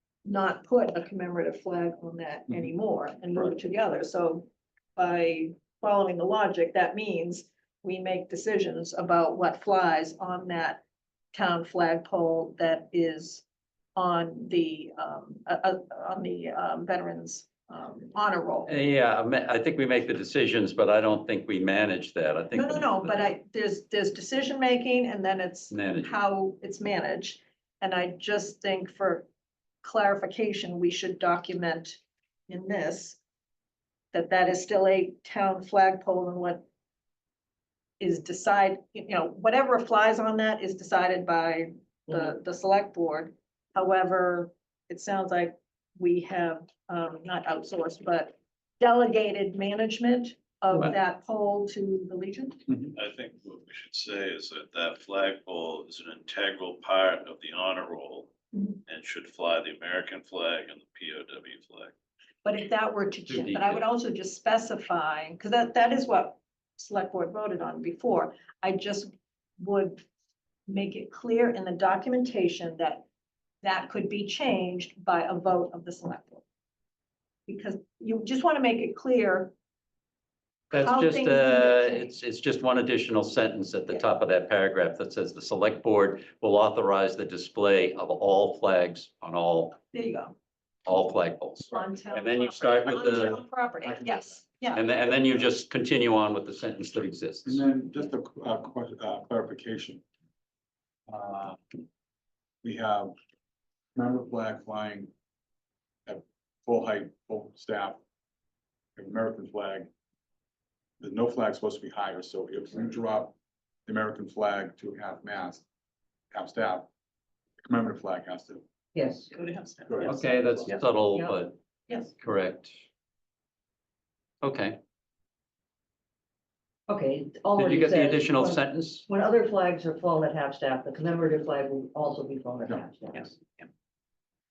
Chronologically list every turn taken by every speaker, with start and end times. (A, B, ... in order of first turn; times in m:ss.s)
0:00.2-0:10.8 A
0:11.3-0:13.4 A
0:14.0-0:18.7 A
0:18.6-0:23.2 B
0:22.5-0:29.3 A
0:25.7-0:26.1 B
0:29.8-0:33.2 A
0:34.1-0:36.6 A
0:38.0-0:52.6 A
0:42.1-0:42.3 C
0:52.7-0:52.9 D
0:52.9-0:58.3 E
0:58.5-0:58.8 A
0:58.8-1:01.9 E
1:02.4-1:10.0 A
1:03.3-1:03.8 B
1:10.7-1:13.0 A
1:13.6-1:16.4 A
1:17.5-1:19.5 A
1:20.7-1:29.8 B
1:20.7-1:22.1 A
1:29.9-1:30.4 A
1:30.8-1:33.4 B
1:31.7-1:34.8 A
1:32.9-1:34.4 D
1:34.7-1:37.6 B
1:37.4-1:40.0 D
1:41.1-1:41.6 D
1:42.6-1:43.1 D
1:43.9-1:45.1 D
1:46.0-1:48.0 D
1:49.0-1:49.9 D
1:51.0-1:53.3 D
1:53.8-1:55.6 D
1:56.3-1:56.9 D
1:57.6-1:58.6 D
1:58.9-1:59.3 C
1:59.3-2:00.8 A
1:59.9-2:00.7 D
2:00.0-2:01.6 B
2:01.9-2:02.1 A
2:02.1-2:02.8 B
2:04.4-2:04.8 B
2:06.9-2:13.3 C
2:07.6-2:09.1 B